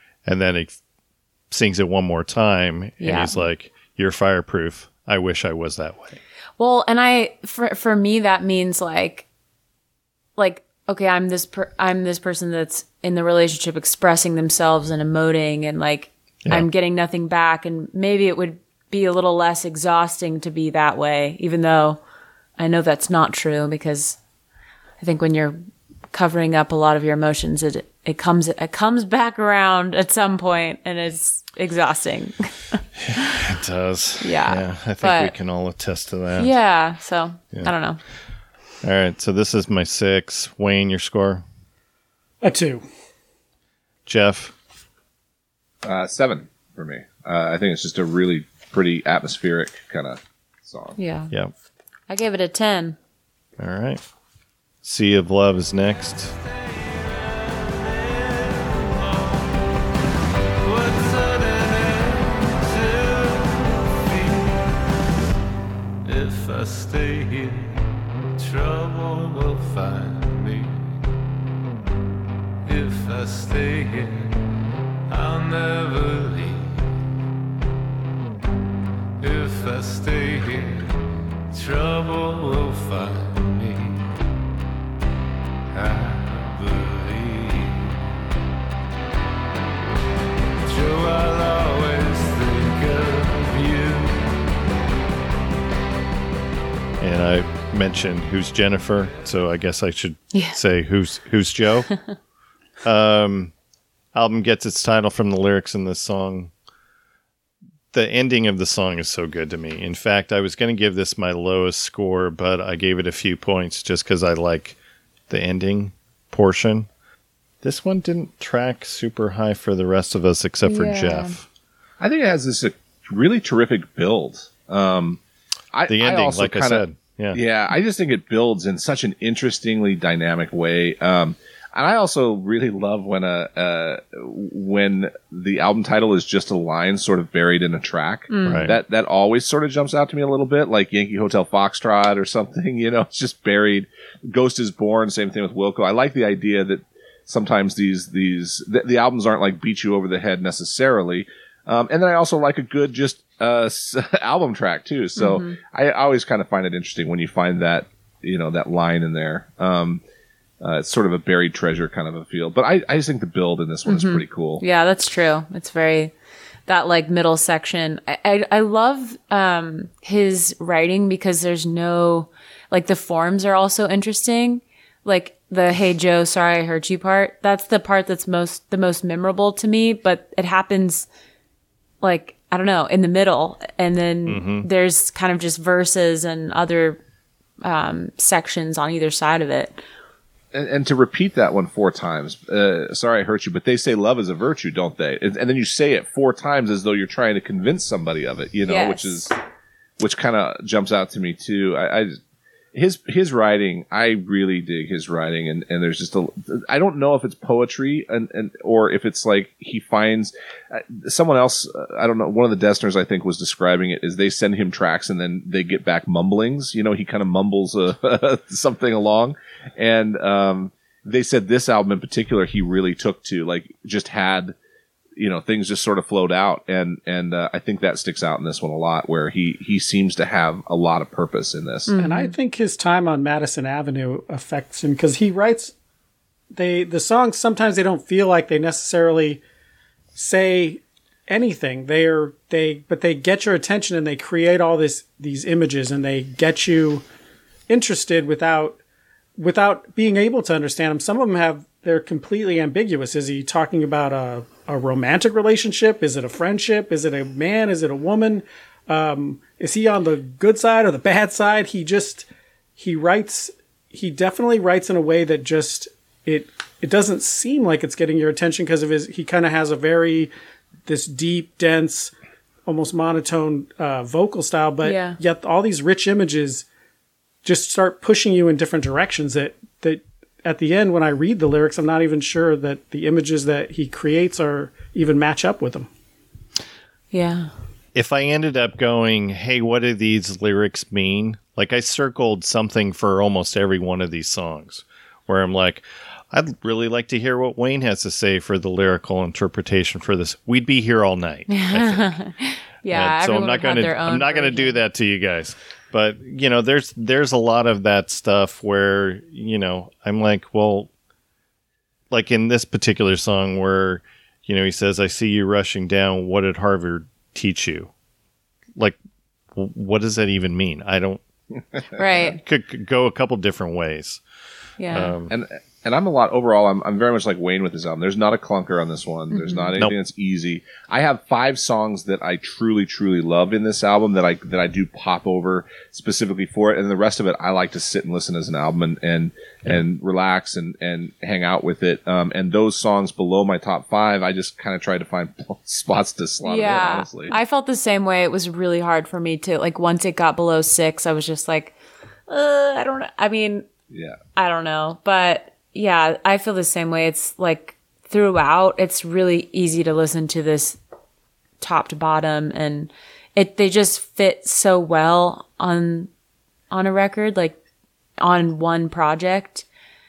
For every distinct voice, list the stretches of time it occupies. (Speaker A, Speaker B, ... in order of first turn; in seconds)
Speaker A: 0.2-0.8, 1.5-6.2, 33.0-36.5, 38.8-41.4, 44.1-44.5, 53.6-54.0, 54.8-56.3, 97.0-101.9, 102.8-103.5, 104.1-106.5, 107.9-114.8, 115.3-116.9, 117.6-121.5, 125.9-127.4, 138.5-138.8, 184.3-184.7, 287.9-302.1, 302.9-310.9, 312.1-317.9, 319.6-321.2, 322.4-324.2, 324.9-325.3
Speaker B: 3.0-3.4, 6.6-9.3, 10.4-22.0, 22.6-24.2, 25.0-32.8, 34.2-35.3, 36.4-38.0, 51.0-51.3, 52.1-53.0, 100.3-100.6, 120.6-121.4, 138.3-138.7, 155.2-155.6, 163.9-166.1, 166.7-181.1, 182.0-187.0, 187.6-189.8, 198.7-199.3, 231.9-232.3, 274.8-275.2, 287.1-287.5, 301.5-304.8, 321.9-322.4, 324.8-325.2, 329.3-329.7, 346.4-351.8, 352.3-353.7, 354.4-360.8, 361.6-366.1, 366.7-367.6, 368.2-369.7
Speaker C: 42.4-42.8, 232.0-235.7, 236.5-239.4, 240.2-247.0, 247.7-248.8, 249.4-262.3, 262.8-270.3, 270.9-272.1, 272.7-276.7, 277.4-285.9
Speaker D: 45.8-51.0, 122.0-125.2, 125.7-160.0, 160.6-164.6, 190.5-199.3, 200.0-202.2, 202.7-224.6, 225.2-231.9, 325.3-347.4, 353.9-354.2
Speaker E: 57.2-59.5, 60.6-64.8, 66.0-71.0, 72.6-74.4, 75.1-76.9, 79.2-84.1, 85.7-88.0, 90.6-94.3